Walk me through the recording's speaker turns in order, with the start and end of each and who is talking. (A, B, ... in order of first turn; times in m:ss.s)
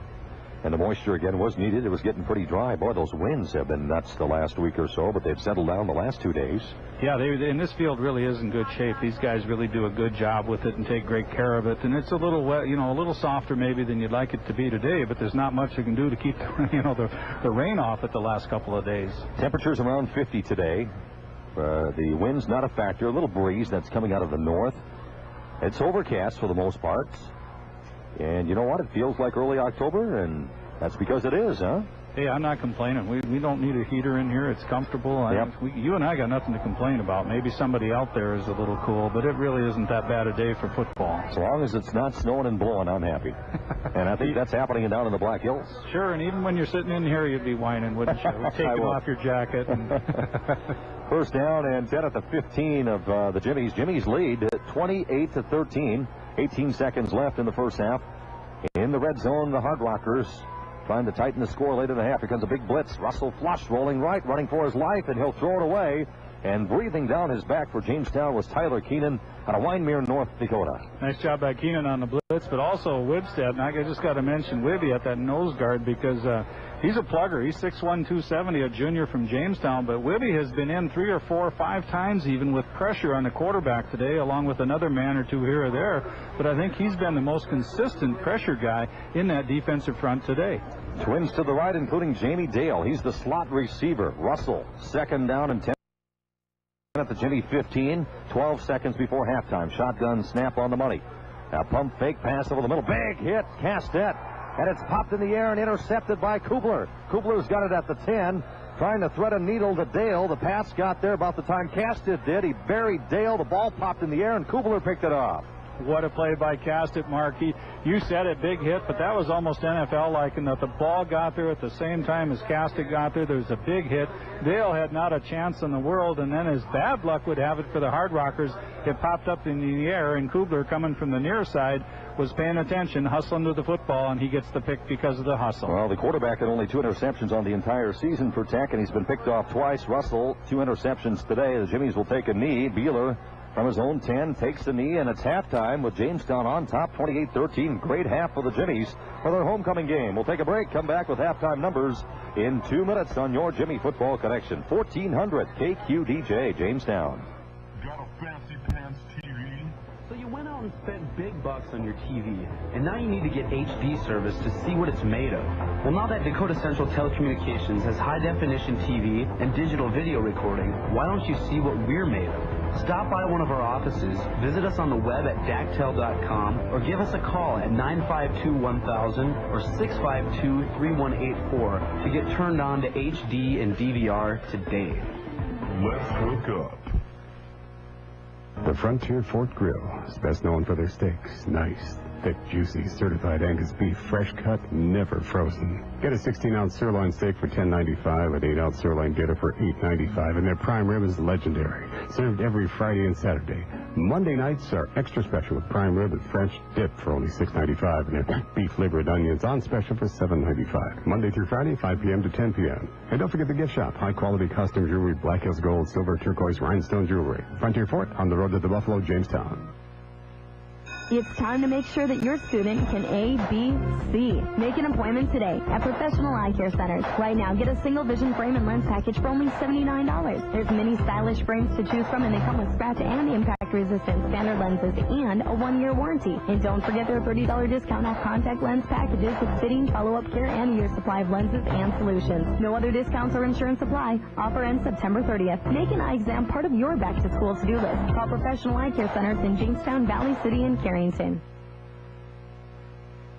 0:00.6-0:06.7 A
0:07.0-0:19.2 B
0:19.4-0:20.9 A
0:21.6-0:24.8 A
0:25.6-0:27.3 A
0:28.2-0:31.9 A
0:32.1-0:41.3 B
0:41.3-0:43.4 A
0:43.9-0:45.8 A
0:45.8-0:50.5 B
0:48.4-0:49.0 A
0:51.1-0:58.0 A
0:58.7-1:10.8 A
1:11.0-1:30.6 B
1:31.0-1:35.8 A
1:36.9-1:55.5 A
1:55.8-2:15.7 B
2:15.6-2:37.2 A
2:37.8-2:39.7 C
2:40.1-3:05.1 D
3:05.7-3:06.9 C
3:08.6-3:39.7 E
3:41.1-4:11.4 F